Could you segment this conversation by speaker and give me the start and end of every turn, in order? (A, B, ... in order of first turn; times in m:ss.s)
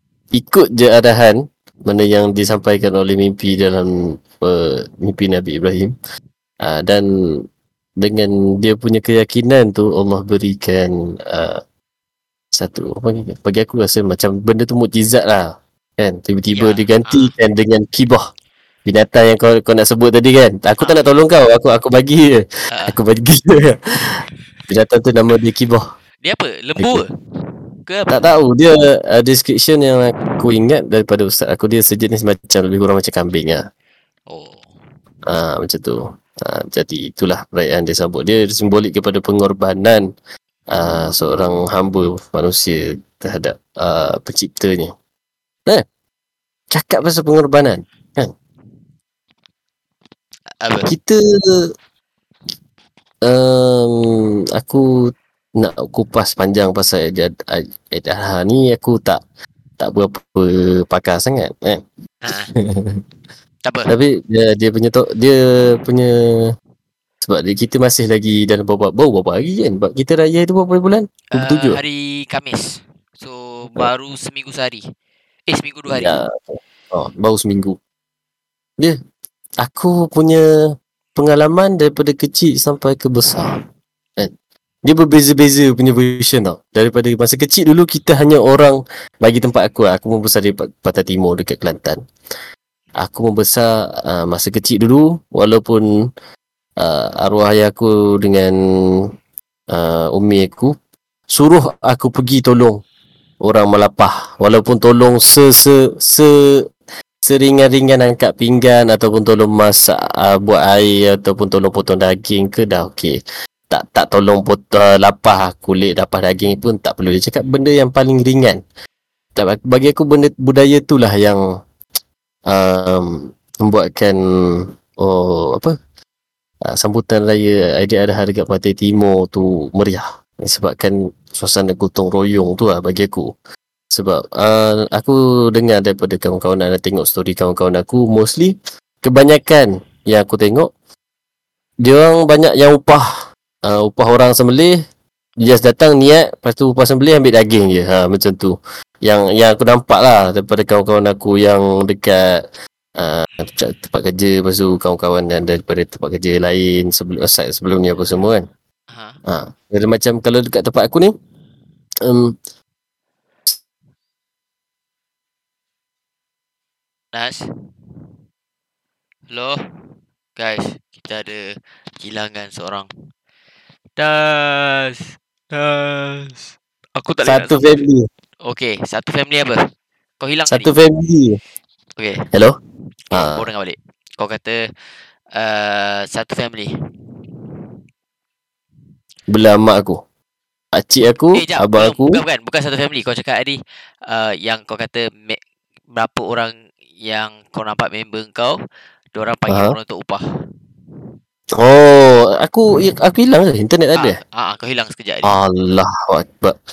0:00.3-0:05.9 A
0:06.6-0:07.4 A
0:08.0-0:11.6 A
0:12.5-0:18.3 A
0:16.5-0:17.3 B
0:18.9-0:25.9 A
0:20.8-0:21.2 B
0:22.7-0:23.0 B
0:26.2-0:27.1 B
0:27.9-0:28.3 B
0:28.1-0:33.6 A
0:34.3-0:34.7 B
0:35.3-0:40.1 A
0:40.7-0:44.9 A
0:46.7-0:48.3 A
0:50.6-0:50.9 B
0:50.9-0:51.6 A
0:53.2-0:59.2 A
0:59.8-1:01.8 A
1:02.2-1:02.5 B
1:02.6-1:03.0 A
1:03.6-1:03.9 B
1:03.9-1:06.1 A
1:07.2-1:11.8 A
1:11.3-1:14.9 B
1:15.5-1:16.2 B
1:15.9-1:17.8 A
1:19.6-1:20.5 A
1:21.2-1:23.6 A
1:24.8-1:32.0 A
1:33.0-1:35.9 A
1:36.8-1:38.6 A
1:39.7-1:40.7 A
1:41.3-1:42.8 A
1:43.4-1:46.7 A
1:47.2-1:58.6 A
1:59.4-2:01.4 A
2:02.5-2:05.7 A
2:06.7-2:13.3 A
2:13.9-2:20.7 A
2:21.8-2:24.8 A
2:25.4-2:32.4 A
2:33.0-2:38.4 A
2:38.9-2:39.2 B
2:39.3-2:41.1 A
2:42.0-2:42.4 A
2:47.1-2:47.4 B
2:49.3-2:52.9 B
2:54.0-2:57.9 B
2:57.2-2:58.1 A
2:58.4-2:59.6 B
3:00.2-3:00.7 B
3:00.5-3:01.4 A
3:02.0-3:02.3 B
3:03.1-3:06.7 B
3:03.1-3:03.5 A
3:09.3-3:10.0 A
3:10.7-3:12.2 A
3:11.3-3:15.4 B
3:15.9-3:18.6 B
3:19.1-3:20.2 B
3:19.5-3:19.8 A
3:21.6-3:24.2 A
3:24.0-3:25.4 B
3:25.2-3:26.6 A